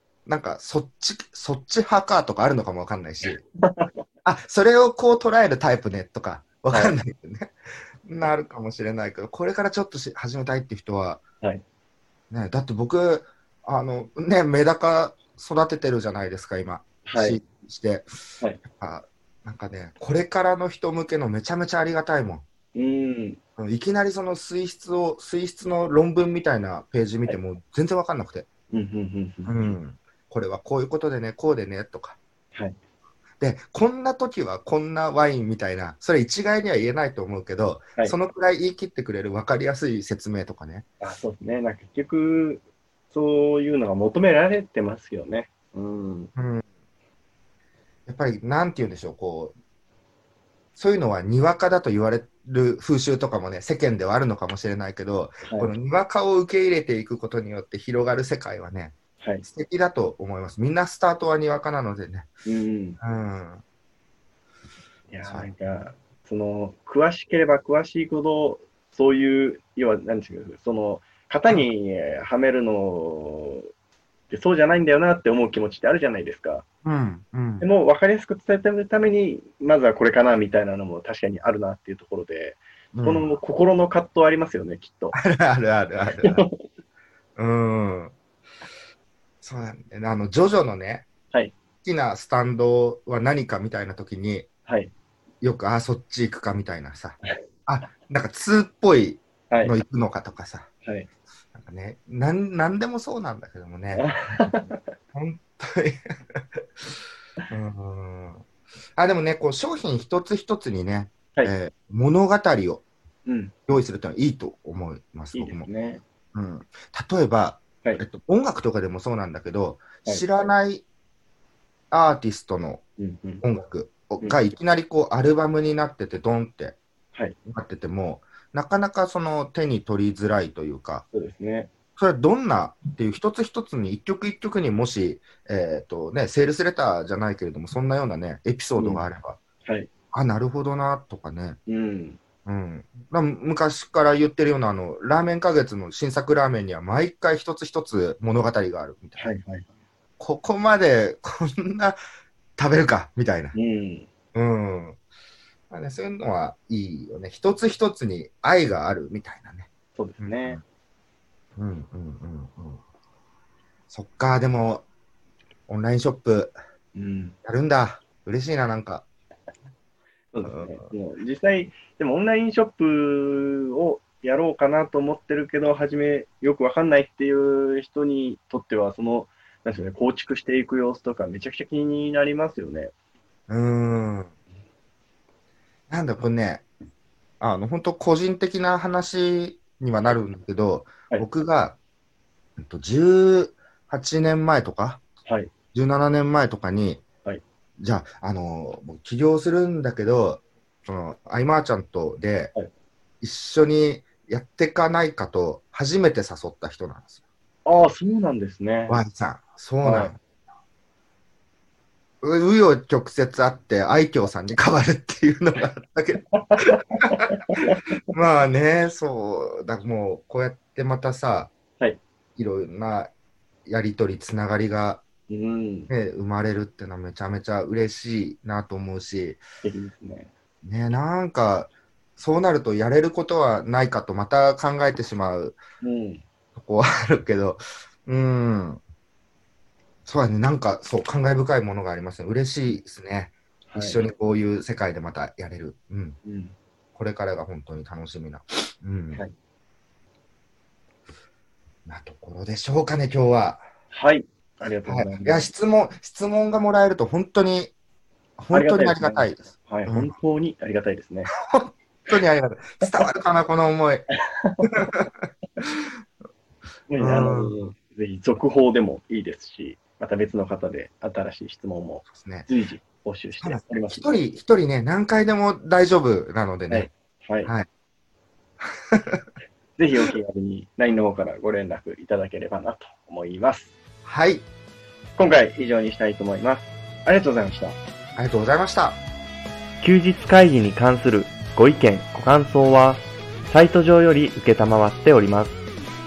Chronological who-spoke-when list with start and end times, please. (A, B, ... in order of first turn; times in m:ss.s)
0:00.3-0:03.4 A
0:03.6-0:03.9 B
0:04.2-0:07.5 A
0:06.7-0:07.0 B
0:08.0-0:11.2 A
0:12.3-0:18.1 A
0:17.1-0:17.4 B
0:18.6-0:22.4 A
0:22.7-0:23.4 B
0:23.6-0:28.5 A
0:28.7-0:29.8 B
0:29.5-0:32.2 A
0:33.4-0:40.8 A
0:41.0-0:46.3 B
0:46.4-0:46.6 A
0:48.1-0:49.6 A
0:50.8-1:02.3 A
0:55.4-0:55.7 B
0:59.2-0:59.4 B
1:02.4-1:03.0 B
1:03.0-1:03.6 A
1:05.1-1:13.7 B
1:05.2-1:05.5 A
1:14.3-1:16.6 B
1:16.8-1:17.7 A
1:17.6-1:25.2 B
1:22.9-1:23.3 A
1:25.2-1:26.5 A
1:26.2-1:26.6 B
1:27.4-1:28.1 A
1:29.4-1:31.1 A
1:31.8-1:34.5 A
1:34.7-1:34.9 B
1:35.4-1:40.7 A
1:39.5-1:39.8 B
1:40.8-1:41.1 B
1:41.5-1:46.4 A
1:43.9-1:44.8 B
1:47.5-1:48.4 A
1:49.0-1:52.8 A
1:53.3-1:53.5 B
1:53.7-1:55.7 A
1:55.3-1:56.0 B
1:56.3-2:00.8 A
2:00.0-2:00.5 B
2:01.9-2:02.8 A
2:03.0-2:03.4 B
2:03.4-2:06.8 A
2:07.5-2:11.0 A
2:11.1-2:11.7 B
2:12.0-2:19.4 A
2:18.8-2:19.0 B
2:20.1-2:21.6 A
2:21.7-2:22.2 B
2:22.4-2:29.3 A
2:29.2-2:29.7 B
2:30.2-2:32.0 A
2:32.6-2:33.6 A
2:33.5-2:34.1 B
2:34.3-2:35.0 A
2:35.7-2:39.7 A
2:40.0-2:40.6 B
2:40.2-2:40.6 A
2:41.6-2:42.8 A
2:43.9-2:44.9 A
2:45.7-2:46.6 A
2:47.0-2:47.4 B
2:47.4-2:49.1 A
2:50.3-3:02.9 B
2:50.4-2:50.9 A
3:03.5-3:04.3 A
3:05.9-3:06.7 A
3:07.4-3:11.8 A
3:12.6-3:15.0 A
3:15.3-3:15.5 B
3:15.7-3:17.0 A
3:17.8-3:22.6 A
3:23.2-3:27.2 A
3:27.7-3:29.0 B
3:28.9-3:30.2 A
3:29.8-3:30.1 B
3:32.2-3:37.2 A
3:36.3-3:38.0 B
3:38.1-3:41.5 A
3:42.4-3:43.1 A
3:43.7-3:45.0 A
3:45.3-3:45.9 B
3:45.9-3:49.4 A
3:49.6-3:50.3 B
3:50.6-3:55.6 A
3:55.8-3:56.2 B
3:56.6-3:58.8 A
4:00.1-4:06.2 A
4:03.7-4:04.1 B
4:06.2-4:06.6 B
4:07.0-4:09.2 A
4:11.9-4:13.7 A
4:13.9-4:15.5 B
4:14.8-4:17.7 A
4:18.4-4:20.1 A
4:18.5-4:21.3 B
4:21.4-4:24.1 A
4:24.2-4:24.8 B
4:24.7-4:25.1 A
4:26.9-4:34.2 B
4:27.0-4:27.6 A
4:32.1-4:32.5 A
4:33.4-4:36.9 A
4:36.7-4:37.5 B
4:38.9-4:39.2 A
4:39.8-4:43.7 B
4:44.0-4:44.5 A
4:45.2-4:47.8 B
4:48.2-4:49.0 A
4:49.8-4:55.6 B